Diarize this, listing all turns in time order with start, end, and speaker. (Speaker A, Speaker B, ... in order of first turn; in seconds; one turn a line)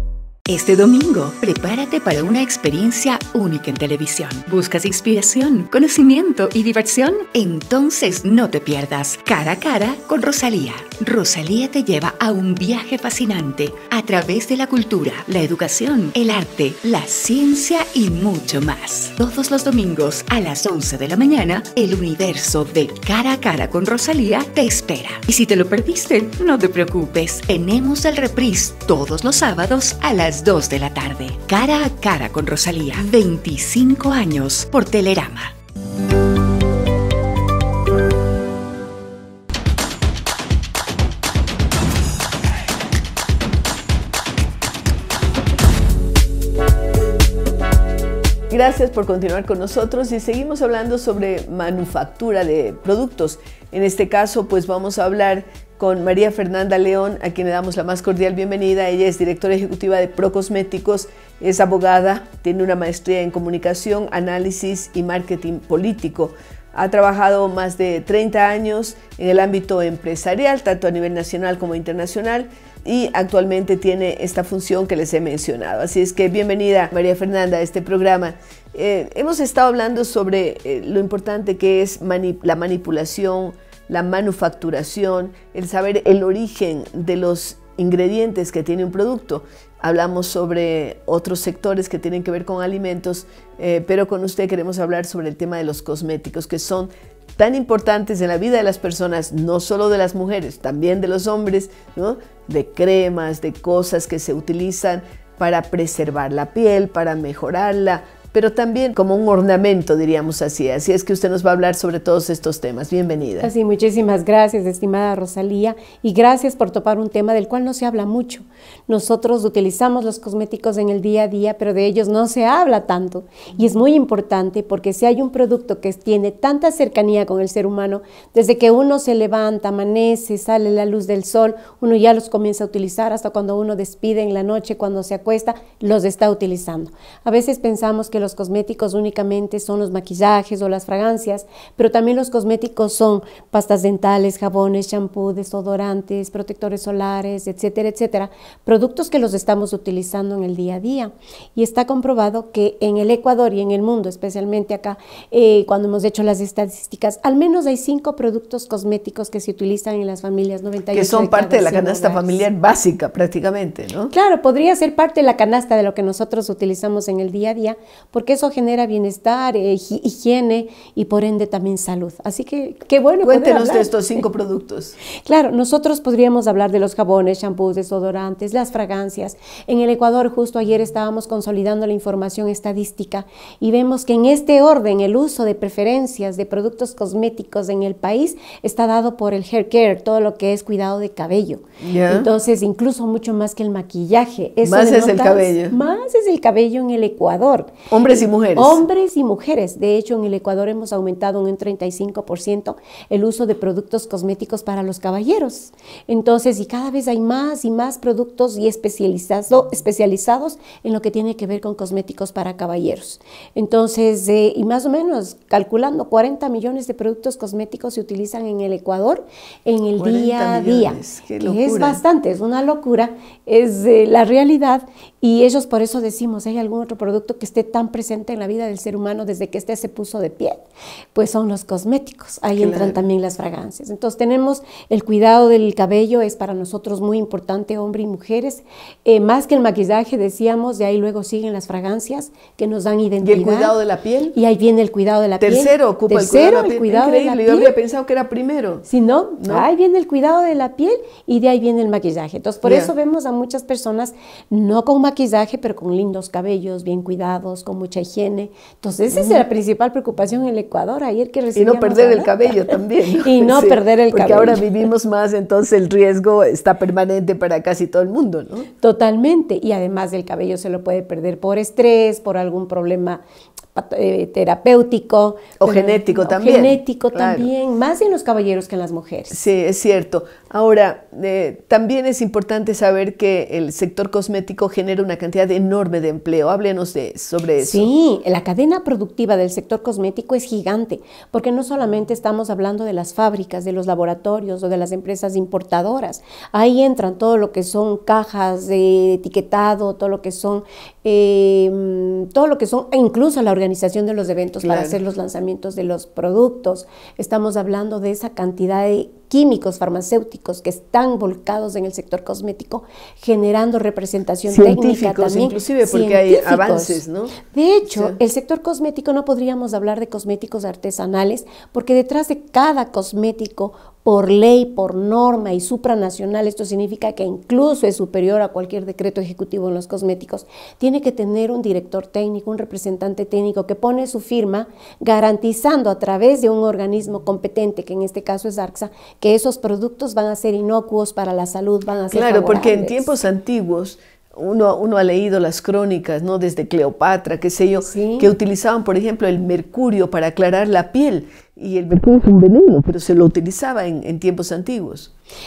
Speaker A: 0.5-35.5
Speaker B: 48.5-113.5
Speaker C: 113.4-162.4
Speaker B: 123.5-123.8
Speaker B: 160.9-164.1
Speaker C: 164.1-174.2
Speaker B: 173.2-175.0
Speaker C: 175.3-230.6
Speaker B: 191.8-192.3
Speaker B: 194.6-195.8
Speaker B: 197.9-198.8
Speaker B: 220.0-222.0
Speaker C: 231.2-243.8
Speaker B: 232.6-233.0
Speaker B: 243.2-244.4
Speaker C: 244.3-247.8
Speaker B: 245.4-248.9
Speaker C: 248.8-264.7
Speaker B: 249.4-249.7
Speaker B: 252.6-252.9
Speaker B: 259.1-259.5
Speaker B: 261.6-268.7
Speaker C: 268.8-273.2
Speaker C: 273.8-279.4
Speaker B: 275.6-277.5
Speaker B: 279.3-287.9
Speaker C: 287.6-343.2
Speaker B: 304.6-305.0
Speaker B: 314.5-318.2
Speaker B: 342.1-355.1
Speaker C: 347.9-348.3